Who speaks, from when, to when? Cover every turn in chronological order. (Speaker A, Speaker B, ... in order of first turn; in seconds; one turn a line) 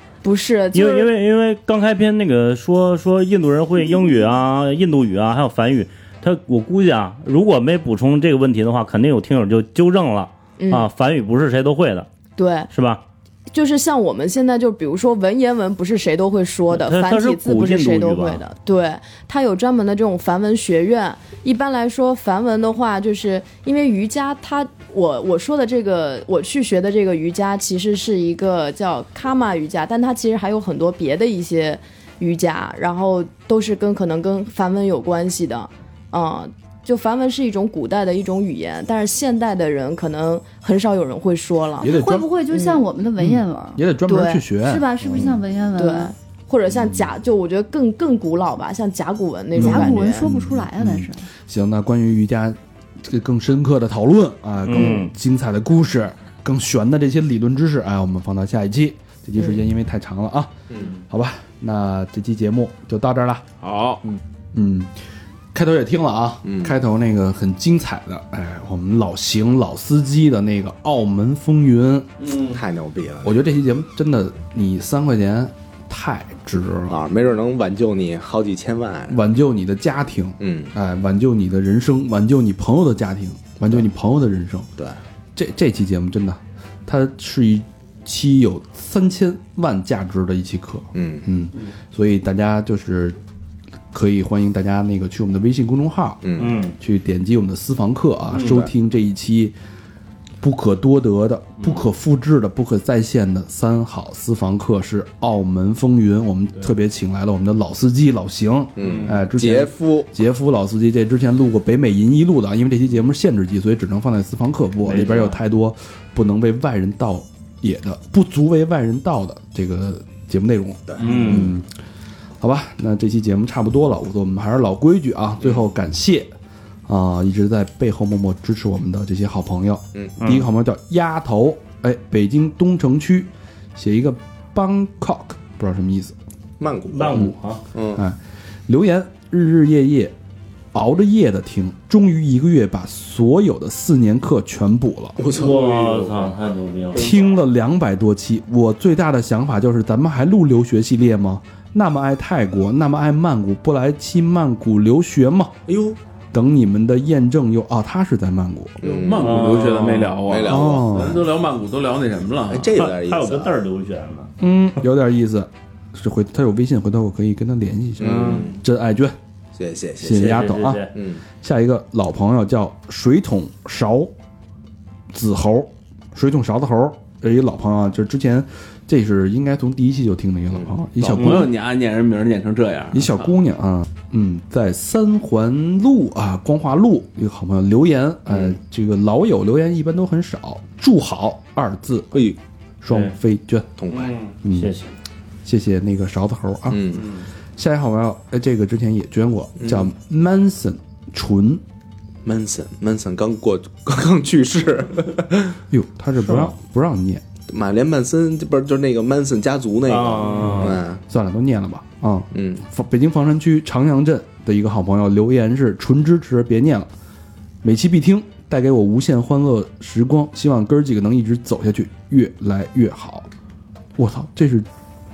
Speaker A: 0.2-1.1
Speaker B: 0.7-12.1
Speaker A: 10.6-10.9
Speaker A: 12.4-12.7
Speaker B: 12.7-13.0
Speaker A: 13.5-41.9
Speaker B: 16.7-18.4
Speaker C: 41.8-42.3
Speaker D: 41.8-43.8
Speaker A: 42.5-42.8
Speaker C: 43.2-45.2
Speaker A: 44.1-44.4
Speaker D: 44.6-46.1
Speaker A: 45.8-50.3
Speaker C: 46.7-47.0
Speaker C: 49.5-60.5
Speaker D: 49.6-51.3
Speaker B: 54.6-55.1
Speaker E: 60.7-61.0
Speaker C: 61.1-63.4
Speaker F: 63.6-64.0
Speaker C: 64.5-64.9
Speaker C: 65.5-72.1
Speaker E: 66.4-66.8
Speaker F: 72.2-72.6
Speaker E: 72.5-73.4
Speaker C: 73.2-77.0
Speaker E: 76.9-79.2
Speaker C: 79.1-84.7
Speaker E: 80.4-80.7
Speaker C: 85.3-93.2
Speaker E: 90.9-91.3
Speaker C: 93.9-96.2
Speaker E: 96.2-96.6
Speaker B: 96.4-96.7
Speaker C: 96.8-99.5
Speaker E: 98.4-98.7
Speaker C: 100.4-121.7
Speaker E: 108.8-110.1
Speaker B: 114.8-115.4
Speaker E: 120.9-121.5
Speaker B: 121.0-121.5
Speaker C: 122.4-126.3
Speaker C: 126.8-136.2
Speaker B: 130.2-130.4
Speaker E: 136.6-138.0
Speaker B: 136.9-137.6
Speaker C: 137.9-140.1
Speaker C: 140.7-145.2
Speaker E: 145.2-146.2
Speaker B: 145.3-147.1
Speaker C: 146.9-155.6
Speaker E: 155.7-156.0
Speaker C: 156.3-158.8
Speaker E: 158.8-159.4
Speaker F: 158.8-162.7
Speaker B: 159.2-160.2
Speaker E: 160.2-161.0
Speaker C: 160.5-161.2
Speaker E: 162.5-163.5
Speaker B: 162.7-164.3
Speaker C: 164.4-169.2
Speaker E: 168.0-168.6
Speaker E: 169.6-170.4
Speaker C: 170.0-170.8
Speaker B: 170.2-170.9
Speaker E: 170.9-171.2
Speaker C: 171.4-174.1
Speaker C: 175.1-181.4
Speaker F: 181.0-183.3
Speaker B: 181.2-181.5
Speaker C: 182.9-192.1
Speaker E: 188.3-188.6
Speaker C: 192.8-193.7
Speaker E: 193.8-194.2
Speaker B: 193.9-194.9
Speaker C: 194.4-194.7
Speaker C: 195.4-196.8
Speaker E: 196.7-197.1
Speaker C: 197.6-201.6
Speaker E: 199.6-199.9
Speaker E: 202.2-205.6
Speaker C: 205.7-207.2
Speaker B: 206.2-206.5
Speaker E: 207.5-211.0
Speaker B: 209.9-210.8
Speaker C: 210.5-216.9
Speaker E: 212.3-212.6
Speaker C: 217.6-223.3
Speaker C: 224.0-224.7